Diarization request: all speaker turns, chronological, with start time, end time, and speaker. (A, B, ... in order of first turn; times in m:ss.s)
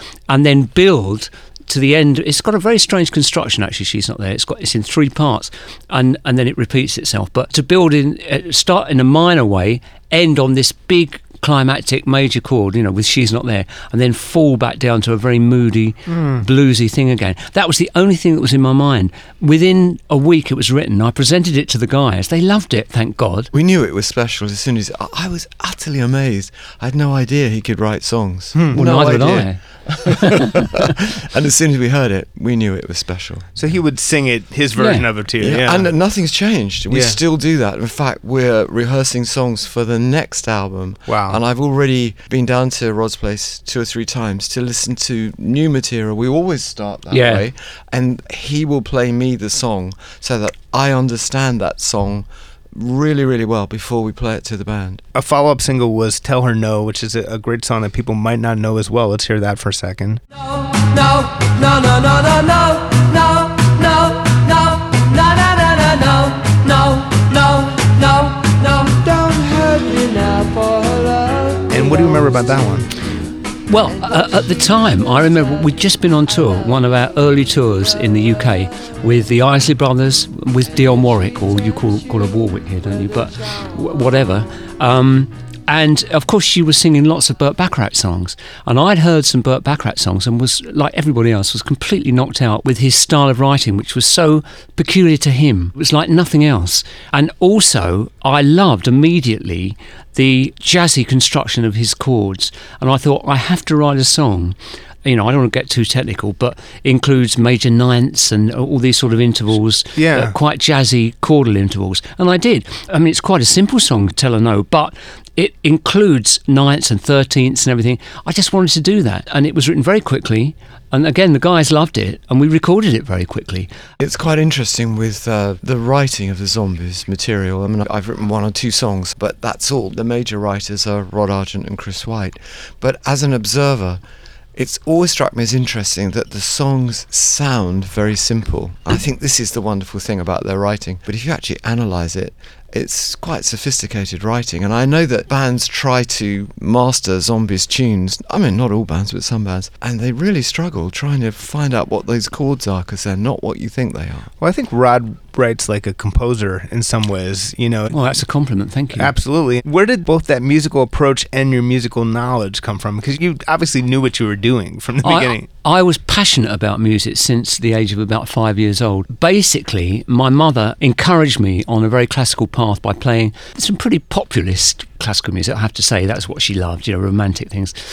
0:00.3-0:23.5 A
0:16.1-0:16.4 B
0:23.5-0:33.5 C
0:28.7-0:30.7 A
0:33.6-0:35.9 B
0:34.8-0:35.0 A
0:35.4-0:55.0 C
0:36.9-0:37.2 B
0:41.1-0:41.4 B
0:47.1-0:47.4 A
0:55.1-1:00.2 B
1:00.3-1:12.6 D
1:11.7-1:12.9 B
1:13.7-2:03.7 A
1:13.8-1:14.8 D
1:20.9-1:22.1 D
1:23.0-1:23.8 D
1:50.0-1:50.4 B
2:04.0-2:14.0 C
2:14.6-2:34.3 C
2:34.4-2:38.0 B
2:37.9-2:39.1 A
2:39.0-2:45.5 B
2:45.0-2:57.7 A